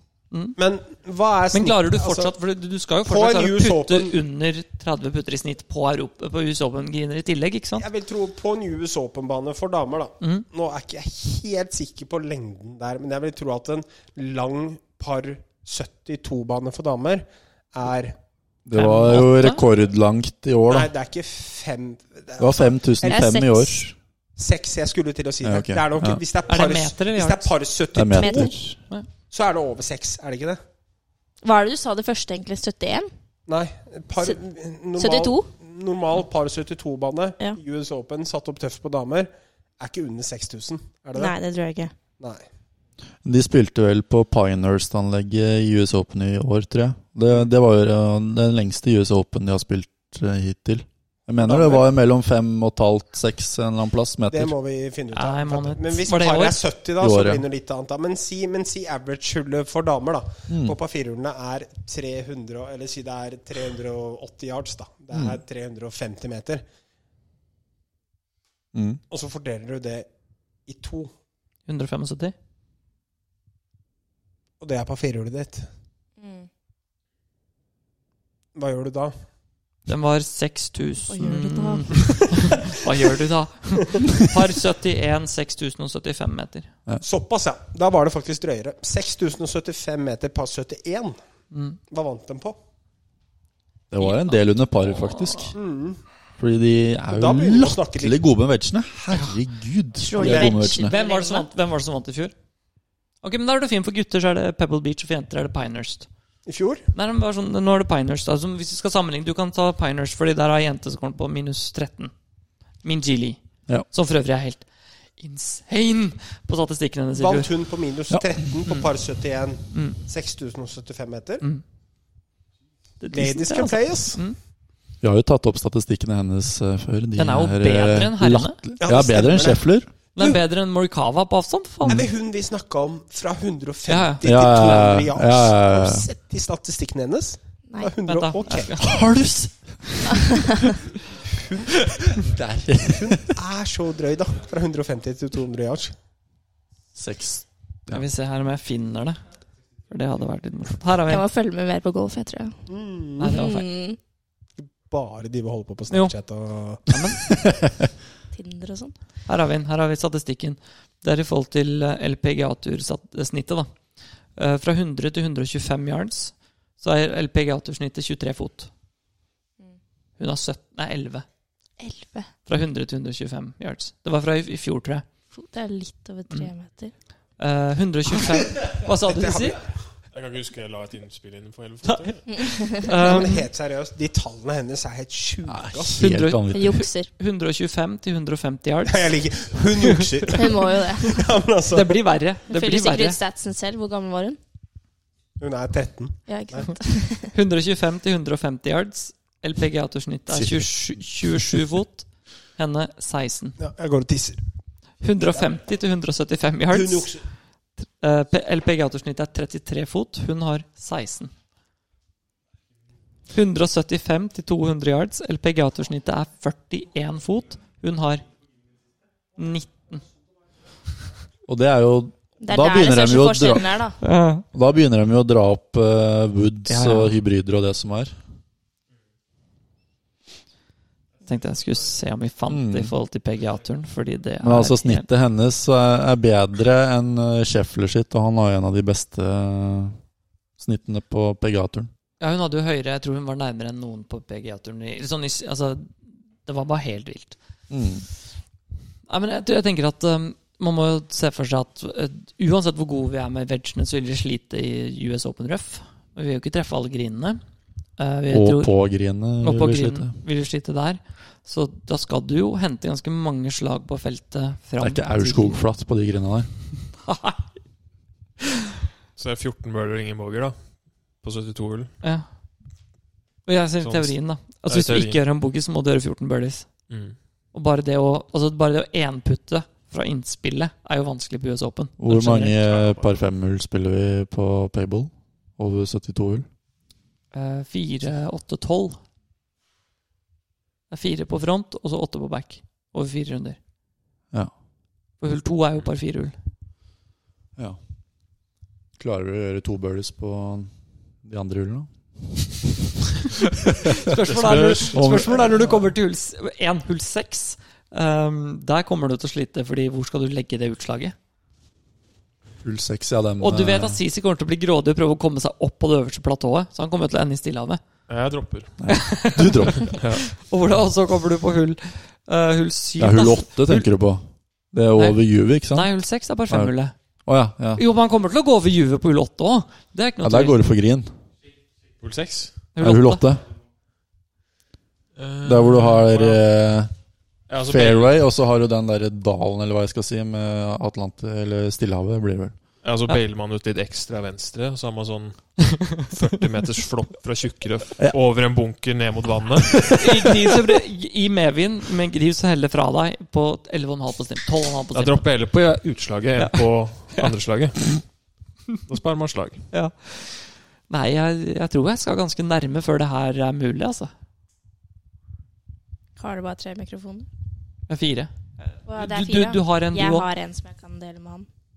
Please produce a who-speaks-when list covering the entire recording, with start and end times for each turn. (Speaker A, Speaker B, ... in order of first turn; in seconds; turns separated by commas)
Speaker A: 0.3-0.6, Speaker B: 0.6-2.4, Speaker A: 1.5-7.9, Speaker B: 3.0-4.2, Speaker B: 7.8-18.2, Speaker A: 10.2-10.5, Speaker C: 18.7-20.9, Speaker A: 18.7-19.6, Speaker B: 20.7-23.3, Speaker C: 22.4-23.9, Speaker D: 23.1-23.9, Speaker B: 24.4-28.5, Speaker C: 25.4-26.2, Speaker A: 26.5-27.5, Speaker C: 27.9-28.8, Speaker D: 28.1-28.6, Speaker B: 29.3-30.6, Speaker D: 31.4-33.1, Speaker B: 33.5-41.4, Speaker D: 35.0-35.5, Speaker D: 41.2-41.9, Speaker B: 42.2-42.4, Speaker C: 43.2-54.5, Speaker B: 51.4-51.9, Speaker B: 54.3-66.6, Speaker A: 55.1-56.6, Speaker C: 57.0-57.4, Speaker C: 60.5-60.8, Speaker C: 68.8-69.0, Speaker B: 69.1-70.1, Speaker B: 70.7-71.1, Speaker A: 71.7-72.3, Speaker B: 74.6-75.7, Speaker D: 76.2-76.5, Speaker B: 78.5-79.2, Speaker A: 79.9-86.7, Speaker D: 81.1-82.3, Speaker B: 87.0-91.2, Speaker A: 91.5-91.8, Speaker B: 91.9-92.6, Speaker C: 93.9-95.6, Speaker A: 94.0-95.5, Speaker B: 95.5-96.0, Speaker C: 96.4-100.9, Speaker B: 97.1-98.2, Speaker A: 99.1-99.4, Speaker D: 100.0-101.5, Speaker B: 100.2-100.7, Speaker A: 100.7-102.3, Speaker A: 103.2-106.1, Speaker B: 106.5-106.9, Speaker A: 106.9-112.1, Speaker A: 112.8-117.5, Speaker B: 117.2-121.5, Speaker A: 119.7-120.0, Speaker A: 123.0-124.4, Speaker B: 123.1-124.2, Speaker C: 125.0-129.9, Speaker A: 127.2-128.6, Speaker B: 128.8-130.4, Speaker A: 130.2-132.0, Speaker B: 131.9-138.9, Speaker A: 133.9-134.3, Speaker C: 134.2-136.1, Speaker A: 138.1-139.0, Speaker C: 138.8-140.3, Speaker B: 141.3-141.8, Speaker C: 142.1-143.3, Speaker B: 143.0-145.9, Speaker C: 146.9-148.0, Speaker A: 147.9-149.2, Speaker A: 149.9-151.2, Speaker D: 151.1-152.7, Speaker B: 152.7-153.4, Speaker A: 153.2-153.7, Speaker D: 153.3-154.0, Speaker B: 154.6-157.0, Speaker A: 156.9-157.2, Speaker D: 158.3-158.9, Speaker A: 159.3-163.8, Speaker A: 164.3-168.7, Speaker A: 170.2-171.3, Speaker D: 171.8-172.3, Speaker A: 172.5-175.1, Speaker D: 175.3-176.9, Speaker A: 177.4-179.6, Speaker B: 178.6-179.7, Speaker E: 180.1-182.4, Speaker A: 181.8-183.5, Speaker D: 182.3-182.9, Speaker B: 182.9-186.1, Speaker C: 185.5-186.8, Speaker A: 186.0-189.1, Speaker D: 186.5-187.1, Speaker B: 188.9-192.0, Speaker A: 189.8-190.3, Speaker D: 190.3-191.2, Speaker A: 191.7-193.2, Speaker D: 192.5-194.4, Speaker B: 195.4-196.7, Speaker D: 196.3-197.3, Speaker A: 197.3-203.6, Speaker C: 200.3-201.5, Speaker B: 203.6-204.4, Speaker A: 205.0-207.1, Speaker B: 206.7-207.2, Speaker A: 207.8-211.3, Speaker A: 213.3-218.3, Speaker A: 219.4-220.0, Speaker C: 221.5-223.8, Speaker D: 222.4-224.0, Speaker A: 224.0-224.5, Speaker C: 224.5-228.1, Speaker A: 226.7-227.2, Speaker A: 231.2-235.1, Speaker C: 232.5-232.9, Speaker C: 234.4-240.0, Speaker C: 240.6-241.9, Speaker A: 242.2-247.4, Speaker C: 247.7-248.1, Speaker A: 249.1-257.4, Speaker A: 258.0-258.7, Speaker C: 258.3-260.2, Speaker A: 259.4-265.6, Speaker C: 264.8-266.5, Speaker A: 266.9-267.5, Speaker E: 269.2-271.9, Speaker A: 272.0-272.3, Speaker A: 273.5-276.9, Speaker E: 273.8-275.2, Speaker E: 276.9-277.2, Speaker A: 277.5-282.6, Speaker C: 282.0-286.5, Speaker E: 282.4-283.1, Speaker A: 287.3-289.0, Speaker A: 290.9-293.6, Speaker A: 295.2-296.4, Speaker C: 299.0-302.6, Speaker A: 304.1-311.1, Speaker E: 304.4-305.6, Speaker C: 304.9-305.6, Speaker C: 312.6-314.0, Speaker A: 313.4-317.8, Speaker E: 318.1-319.2, Speaker C: 318.8-320.0, Speaker A: 318.9-323.9, Speaker E: 319.8-320.3, Speaker C: 323.0-325.9, Speaker A: 325.0-326.9, Speaker C: 326.5-327.8, Speaker A: 327.8-330.6, Speaker C: 330.2-331.1, Speaker E: 332.0-332.8, Speaker A: 332.7-333.3, Speaker C: 332.8-333.5, Speaker E: 335.1-336.4, Speaker C: 335.4-337.0, Speaker E: 337.5-338.2, Speaker C: 337.6-342.7, Speaker E: 342.8-350.0, Speaker C: 349.8-350.2, Speaker A: 350.0-355.2, Speaker E: 354.9-358.0, Speaker A: 356.4-357.3, Speaker E: 358.9-359.6, Speaker A: 359.7-364.1, Speaker D: 366.2-367.3, Speaker A: 367.9-368.3, Speaker A: 368.9-370.3, Speaker D: 368.9-371.5